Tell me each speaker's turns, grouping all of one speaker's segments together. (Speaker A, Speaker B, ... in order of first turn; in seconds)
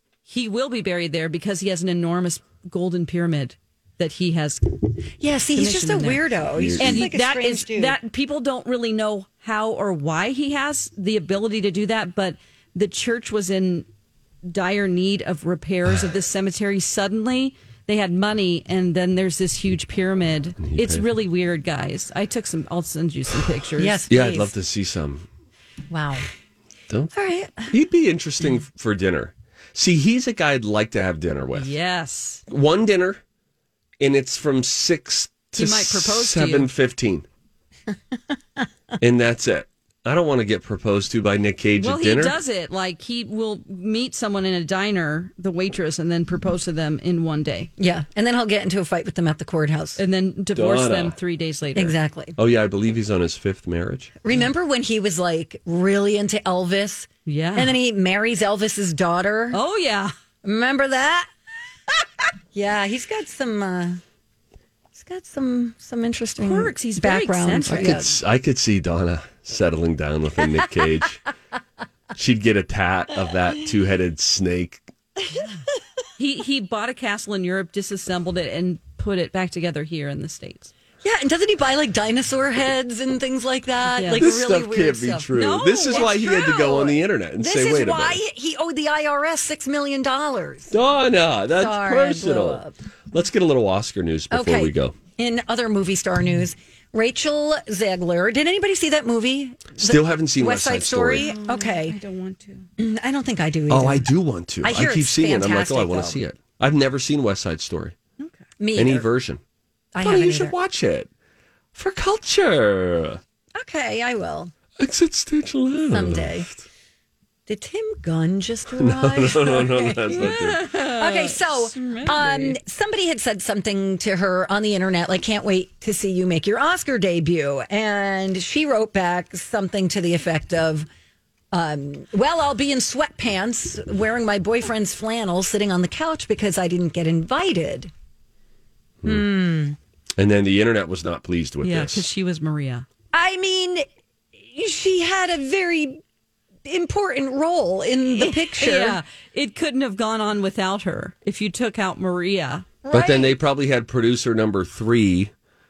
Speaker A: 0.3-4.7, 5.5-6.2, 6.8-13.8, 14.4-24.1, 31.5-32.4, 35.5-36.7, 41.8-47.7, 50.0-52.0, 57.2-57.8, 59.5-60.1, 66.4-68.1, 76.2-80.7, 83.8-84.3, 85.3-86.2, 101.2-102.7, 120.2-122.6, 141.6-142.8, 148.0-152.7
Speaker B: 5.2-7.9, 23.8-24.5, 25.9-26.2, 27.1-27.7, 47.8-50.0, 51.7-52.4, 54.2-59.6, 60.4-61.3, 62.5-64.0, 64.9-68.1, 81.0-85.3, 85.9-90.7, 91.6-92.7, 94.3-102.0, 102.8-104.0, 104.6-106.2, 108.6-109.1, 109.9-110.5, 113.5-114.5, 115.9-116.5, 117.5-120.3, 121.0-130.9, 131.5-137.9, 139.0-139.8, 143.1-146.0, 146.6-149.0, 152.8-153.3
Speaker C: 6.5-7.1, 20.6-21.0, 24.1-25.3, 27.7-31.7, 32.5-33.2, 34.0-37.3, 39.0-42.4, 50.5-51.1, 52.4-54.1, 67.6-71.2, 72.2-74.8, 84.1-88.2, 90.7-95.0, 99.8-101.3, 103.7-107.9, 108.7-109.4, 110.0-111.1, 111.7-113.2, 114.8-116.5, 118.8-120.6, 140.2-142.1, 152.9-155.3